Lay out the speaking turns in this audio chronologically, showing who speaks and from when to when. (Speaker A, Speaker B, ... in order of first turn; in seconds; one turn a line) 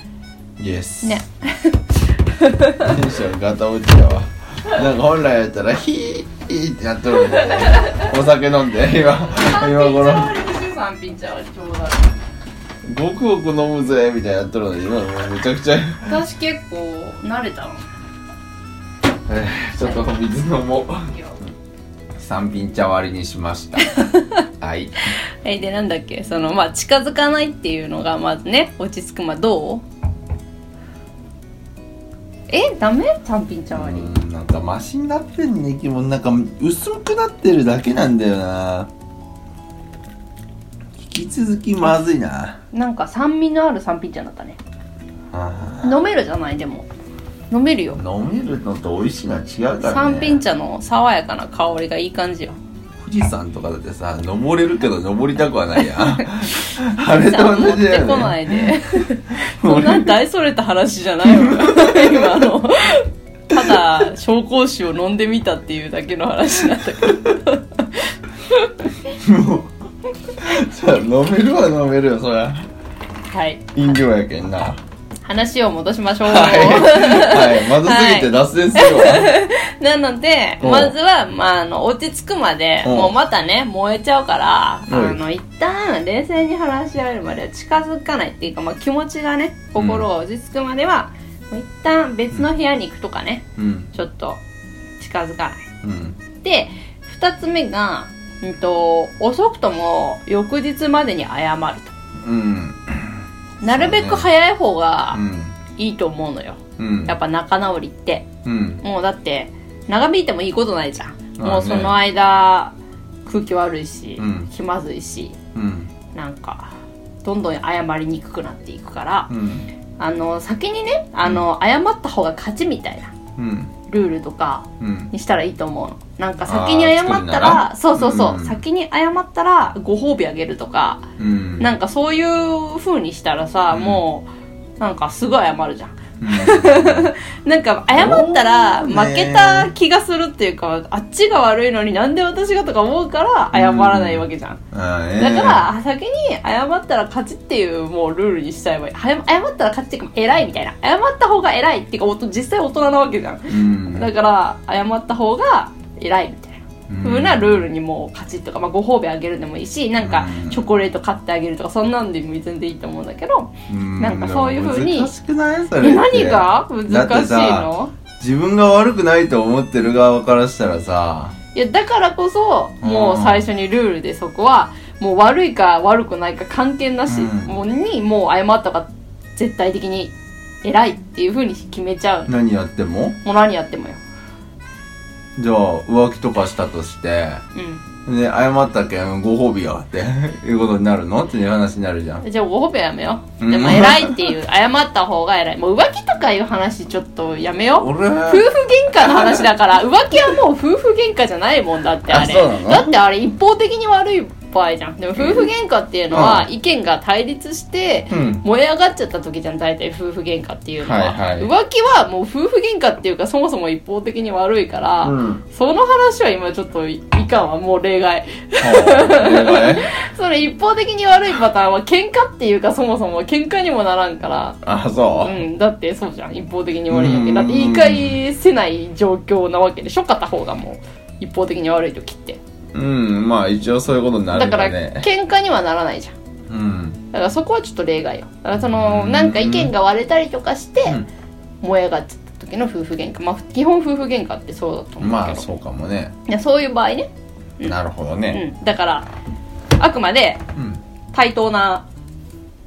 Speaker A: 0.6-1.2
Speaker B: 1.0-1.8
Speaker B: 2.3-2.9
Speaker A: 2.8-10.3
Speaker B: 7.2-8.1
Speaker B: 9.3-12.1
Speaker A: 12.8-16.1
Speaker B: 16.0-17.9
Speaker A: 19.3-21.1
Speaker B: 21.0-21.4
Speaker A: 22.1-23.9
Speaker B: 23.9-24.4
Speaker A: 24.6-24.9
Speaker B: 25.4-29.9
Speaker B: 32.5-34.1
Speaker A: 33.7-38.9
Speaker A: 41.0-42.6
Speaker B: 42.7-44.6
Speaker A: 45.3-46.0
Speaker B: 45.8-46.9
Speaker B: 47.5-48.0
Speaker A: 47.9-50.4
Speaker B: 49.8-52.5
Speaker A: 53.0-58.8
Speaker B: 57.0-68.9
Speaker A: 59.3-60.2
Speaker A: 61.2-62.3
Speaker A: 69.1-69.7
Speaker A: 70.3-72.7
Speaker B: 73.3-73.8
Speaker A: 73.7-74.8
Speaker B: 75.2-94.4
Speaker A: 76.2-79.3
Speaker A: 80.6-80.9
Speaker A: 82.8-83.1
Speaker A: 84.9-85.2
Speaker A: 89.8-90.1
Speaker A: 93.6-93.9
Speaker B: 95.0-95.7
Speaker A: 95.8-96.2
Speaker B: 96.4-101.9
Speaker A: 102.2-104.3
Speaker B: 103.6-105.2
Speaker A: 105.1-105.5
Speaker B: 105.8-108.3
Speaker A: 106.8-107.2
Speaker A: 108.4-108.8
Speaker B: 108.8-112.7
Speaker A: 111.4-112.0
Speaker B: 113.2-115.4
Speaker A: 114.2-114.5
Speaker A: 115.5-115.9
Speaker B: 116.1-119.3
Speaker A: 119.3-119.7
Speaker B: 120.0-123.1
Speaker A: 123.4-123.7
Speaker B: 123.9-131.1
Speaker A: 124.8-125.1
Speaker A: 126.5-128.6
Speaker A: 131.2-131.7
Speaker B: 131.6-134.3
Speaker A: 133.7-134.0
Speaker B: 134.8-144.6
Speaker A: 136.2-137.1
Speaker A: 137.9-139.7
Speaker A: 143.5-145.7
Speaker B: 145.2-165.1
Speaker A: 153.5-154.1
Speaker A: 156.9-157.7
Speaker A: 160.0-160.7
Speaker A: 163.7-171.3
Speaker B: 165.8-167.9
Speaker B: 171.5-182.3
Speaker A: 172.8-173.5
Speaker A: 177.1-177.6
Speaker A: 182.3-183.2
Speaker B: 183.2-184.0
Speaker A: 185.4-187.4
Speaker B: 187.5-187.8
Speaker A: 188.0-192.2
Speaker B: 192.2-232.4
Speaker A: 193.4-194.3
Speaker A: 197.8-199.5
Speaker A: 202.1-202.9
Speaker A: 205.2-205.5
Speaker A: 206.1-206.5
Speaker A: 208.1-208.4
Speaker A: 210.8-211.5
Speaker A: 215.0-215.4
Speaker A: 218.6-219.9
Speaker A: 224.6-225.4
Speaker A: 226.9-228.2
Speaker A: 232.7-235.1
Speaker B: 234.3-236.1
Speaker A: 236.5-237.0
Speaker B: 237.1-241.0
Speaker A: 238.6-239.7
Speaker B: 241.6-245.5
Speaker A: 245.0-246.1
Speaker B: 246.3-247.1
Speaker A: 247.6-248.4
Speaker B: 248.3-249.1
Speaker B: 249.8-250.4
Speaker A: 250.6-250.8
Speaker B: 251.1-251.8